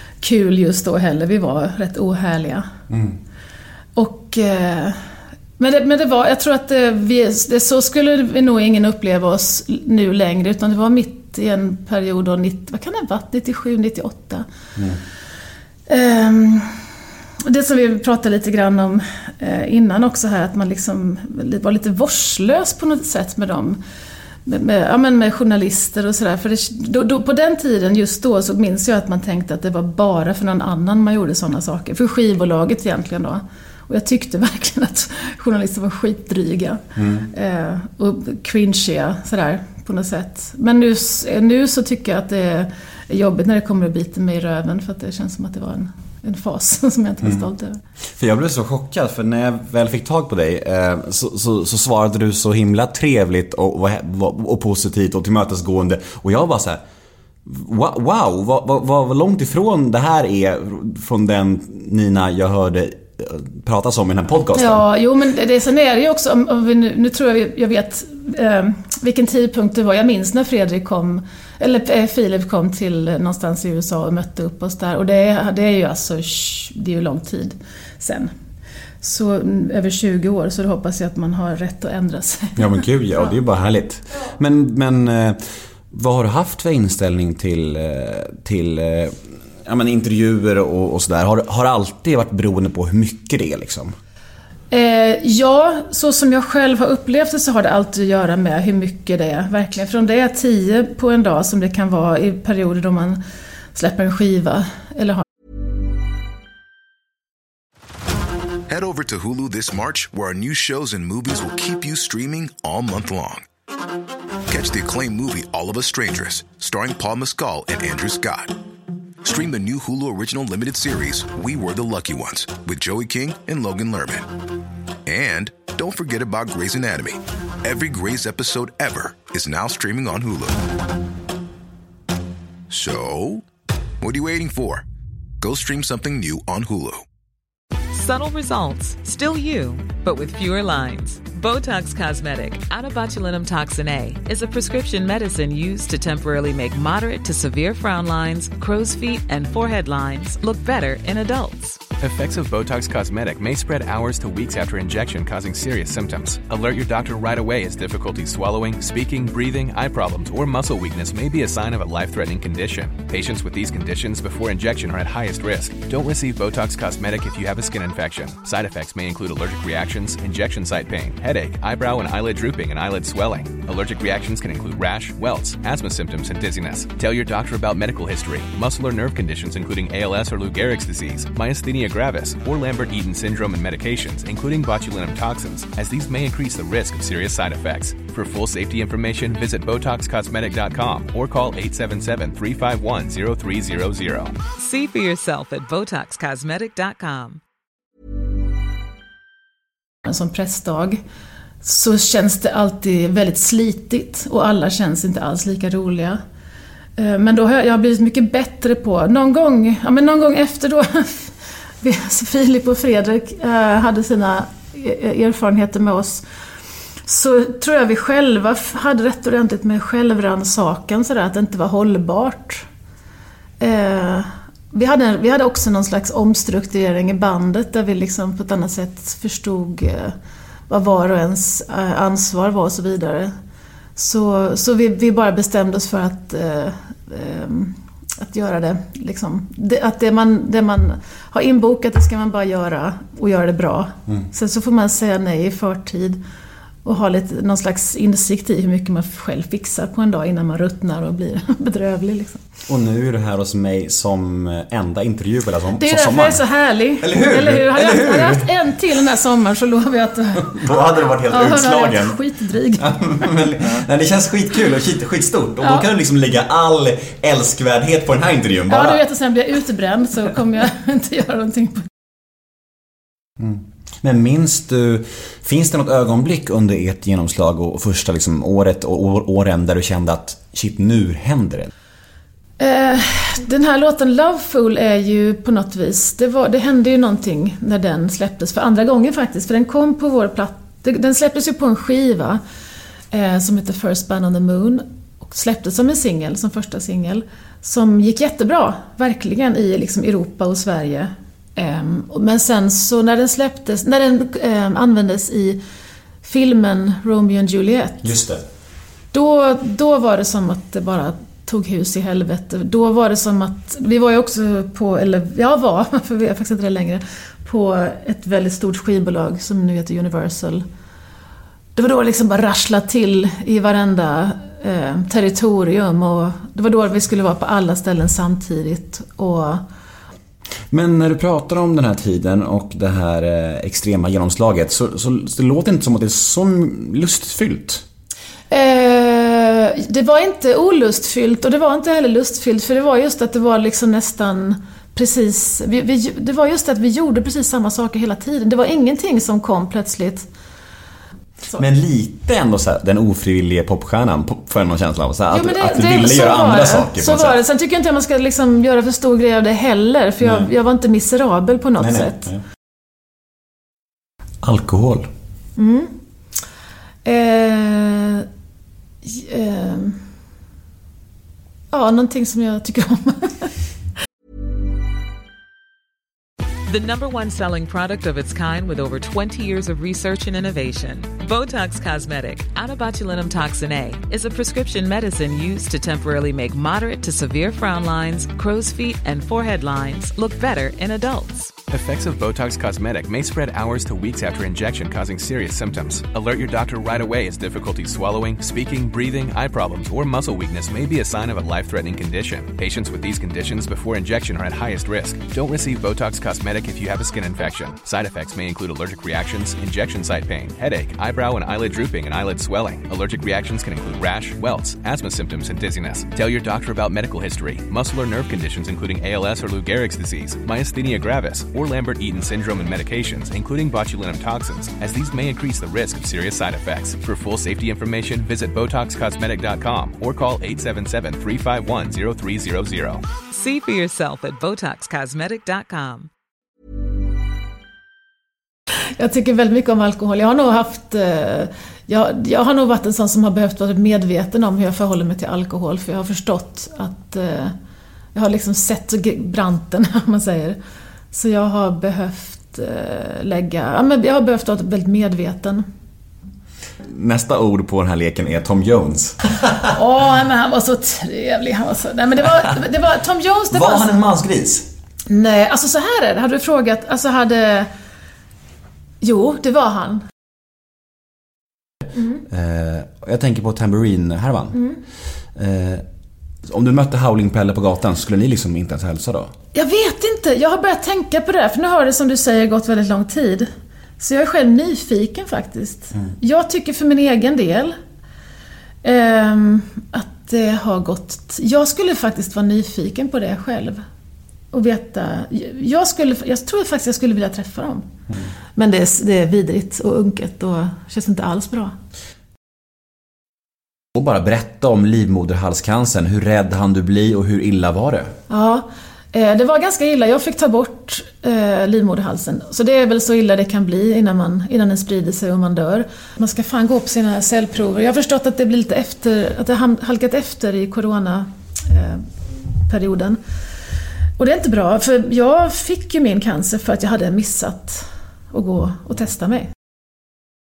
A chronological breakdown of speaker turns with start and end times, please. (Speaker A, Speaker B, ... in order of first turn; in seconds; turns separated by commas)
Speaker A: 0.2-2.6, Speaker B: 2.9-3.2, Speaker A: 3.9-5.0, Speaker A: 5.6-14.4, Speaker A: 15.9-16.7, Speaker A: 17.4-23.8, Speaker A: 24.4-47.8, Speaker B: 37.0-37.2, Speaker B: 48.2-56.8, Speaker B: 57.5-64.8, Speaker A: 64.5-78.3, Speaker A: 79.0-82.8, Speaker B: 82.6-85.4, Speaker B: 85.9-93.9, Speaker A: 94.7-103.2, Speaker A: 103.8-105.2, Speaker C: 108.7-113.4, Speaker C: 114.5-118.6, Speaker C: 119.2-124.3, Speaker C: 125.1-130.6, Speaker C: 132.7-133.4, Speaker C: 134.0-134.8, Speaker C: 135.4-137.0, Speaker D: 137.9-151.8, Speaker E: 152.0-194.4, Speaker D: 194.5-197.4, Speaker A: 200.0-201.0, Speaker A: 201.6-206.2, Speaker A: 207.0-216.2, Speaker A: 217.1-222.7, Speaker A: 223.6-230.2, Speaker A: 230.7-233.3, Speaker A: 233.9-246.2, Speaker A: 246.8-252.4, Speaker B: 252.7-256.4, Speaker A: 255.7-260.6, Speaker B: 257.0-258.6, Speaker B: 260.5-262.2, Speaker A: 261.3-263.0, Speaker B: 262.8-269.0, Speaker A: 265.6-265.9, Speaker A: 268.7-271.9, Speaker B: 273.4-281.7, Speaker A: 282.6-292.4, Speaker A: 293.1-305.6, Speaker A: 306.2-308.1, Speaker B: 308.0-308.4, Speaker A: 309.1-320.6, Speaker A: 321.8-329.6, Speaker B: 330.7-337.8, Speaker A: 338.5-350.3, Speaker B: 351.5-357.4, Speaker A: 355.3-362.2, Speaker B: 361.8-362.4, Speaker B: 364.4-365.1, Speaker A: 365.6-365.9, Speaker A: 367.0-368.3, Speaker A: 369.0-370.0, Speaker A: 371.7-373.5, Speaker D: 376.7-391.6, Speaker E: 391.7-433.0, Speaker D: 433.3-436.1, Speaker A: 439.0-447.5, Speaker A: 448.1-450.6, Speaker A: 451.1-455.6, Speaker B: 456.9-459.6, Speaker A: 459.7-463.9, Speaker B: 463.5-464.7, Speaker A: 465.1-467.7, Speaker A: 469.0-470.0, Speaker B: 472.3-474.6, Speaker B: 475.4-475.9, Speaker B: 476.4-479.3, Speaker A: 479.5-483.5, Speaker A: 484.0-487.7, Speaker A: 488.8-493.8, Speaker A: 494.5-497.9, Speaker A: 498.6-501.7, Speaker B: 503.9-508.1, Speaker A: 508.3-523.2, Speaker A: 524.2-529.5